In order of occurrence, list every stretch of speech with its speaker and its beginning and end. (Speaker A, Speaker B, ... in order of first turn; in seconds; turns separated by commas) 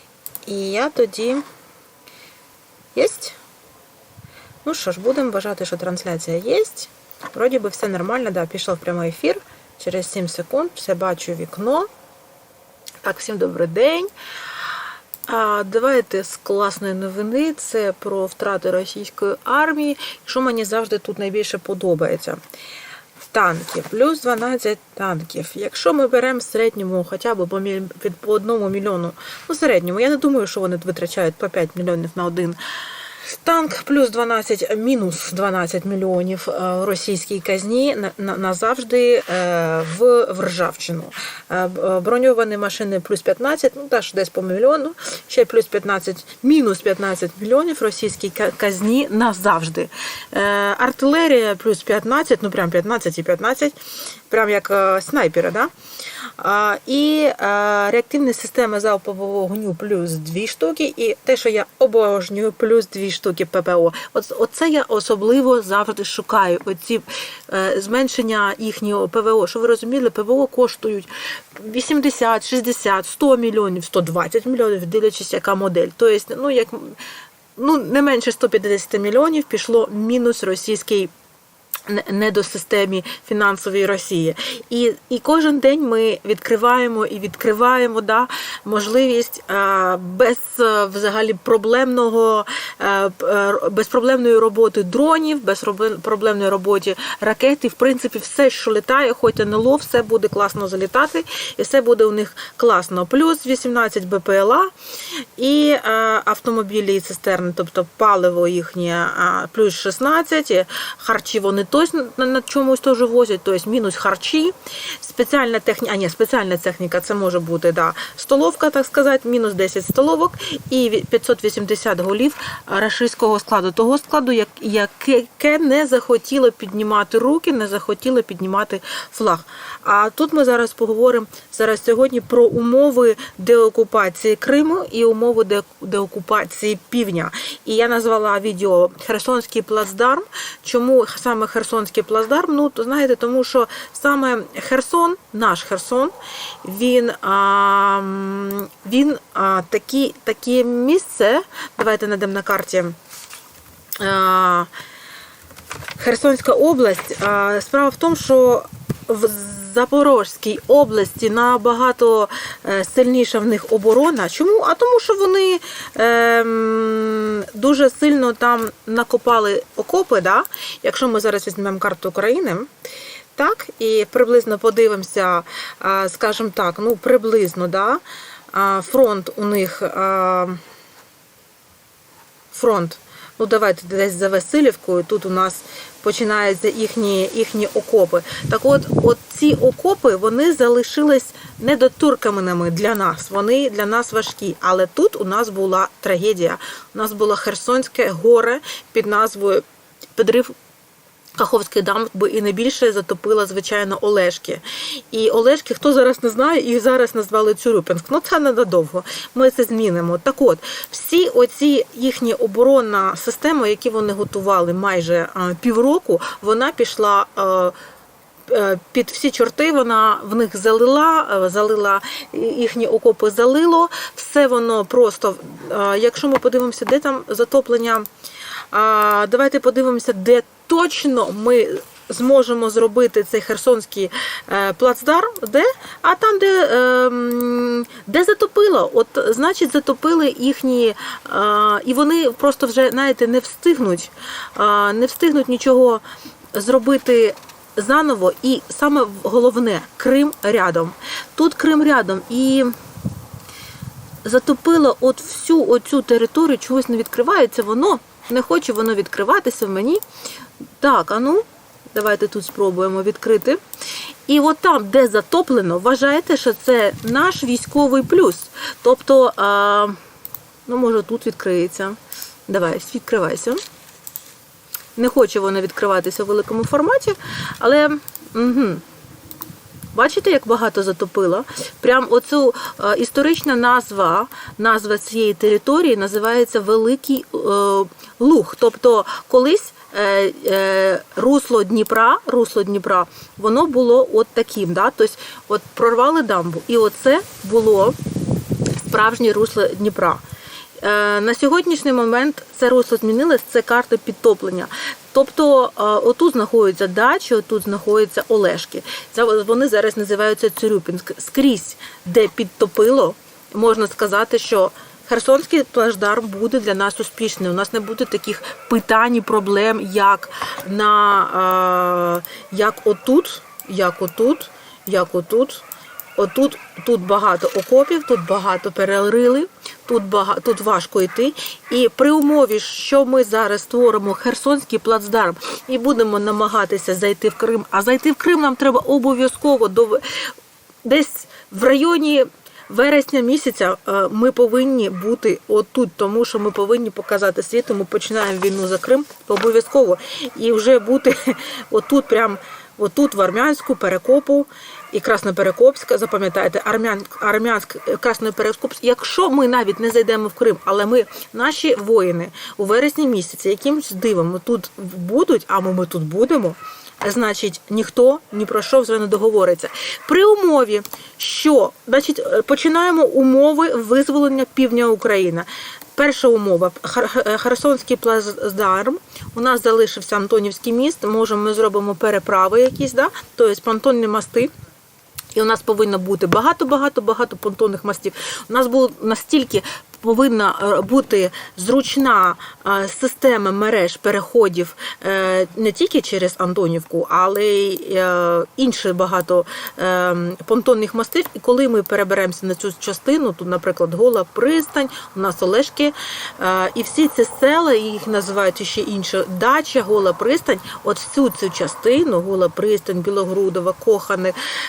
Speaker A: 0.5-1.4, Speaker A: 2.9-3.4, Speaker A: 4.6-11.9, Speaker A: 13.0-14.1, Speaker A: 15.3-22.4, Speaker A: 23.3-32.6, Speaker A: 33.2-53.8, Speaker A: 54.3-55.7, Speaker A: 56.4-77.0, Speaker A: 77.5-81.1, Speaker A: 81.9-104.7, Speaker A: 105.4-153.0, Speaker A: 154.0-154.7, Speaker A: 156.0-172.7, Speaker A: 173.3-180.6, Speaker A: 182.5-199.6, Speaker A: 200.2-200.5, Speaker A: 201.4-217.7, Speaker A: 218.5-228.1, Speaker A: 228.7-252.7, Speaker A: 254.2-260.0, Speaker A: 260.8-263.6, Speaker A: 264.3-269.9, Speaker A: 270.6-273.6, Speaker A: 274.9-278.8, Speaker A: 279.9-298.0, Speaker A: 298.8-300.2, Speaker A: 300.8-325.6, Speaker A: 326.1-340.0, Speaker A: 340.8-384.5, Speaker A: 385.3-414.4